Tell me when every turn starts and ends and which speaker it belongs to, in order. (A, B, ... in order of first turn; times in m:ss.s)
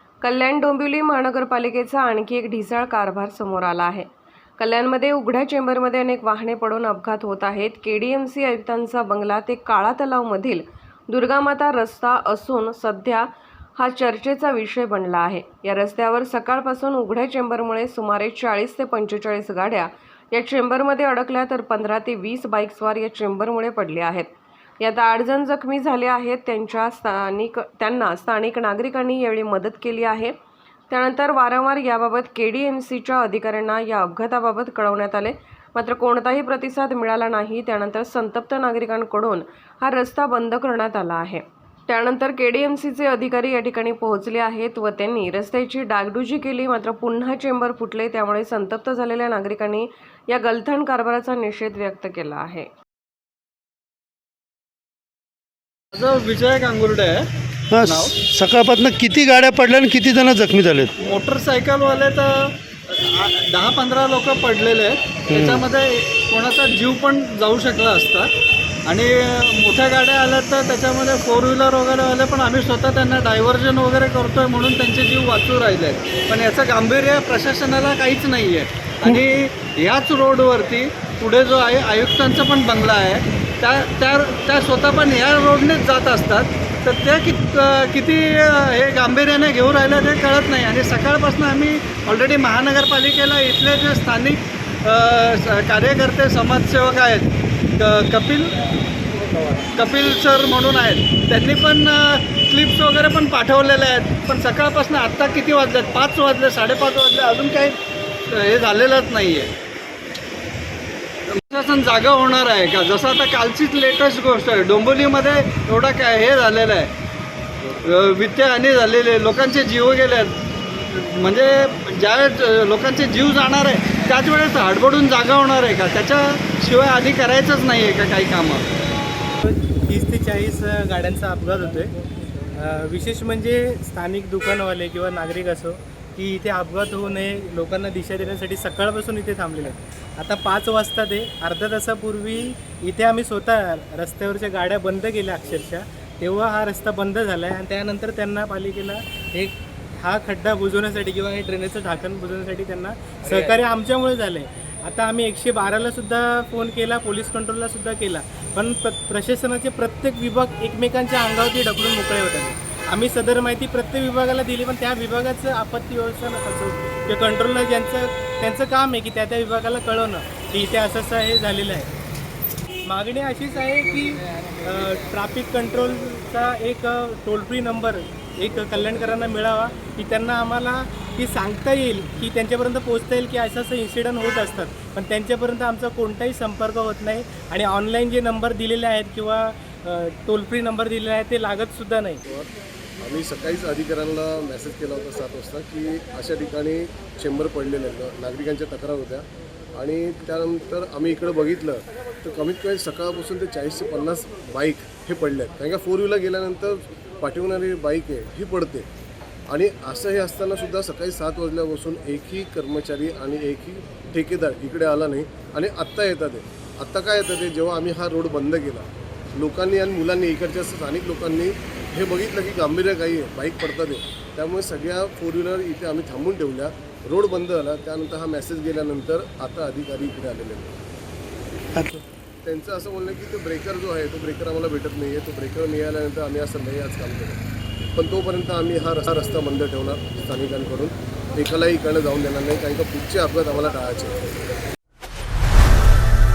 0:00.2-0:30.3 A
0:30.9-0:52.7 A
0:55.9-0:57.3 B
0:57.7-1:00.9 C
0:57.8-0:58.2 B
1:01.0-1:08.3 B
1:08.8-1:38.6 B
1:39.5-1:47.8 B
1:48.3-1:49.5 B
1:51.3-1:56.9 B
1:57.8-2:08.6 B
2:09.4-2:11.9 D
2:12.5-2:51.9 D
2:33.2-2:33.6 B
2:52.8-3:12.2 D
3:13.0-3:19.2 E
3:19.8-3:28.9 E
3:29.5-3:50.8 E
3:51.8-3:52.0 C
3:52.4-3:57.4 E
3:57.9-4:04.4 E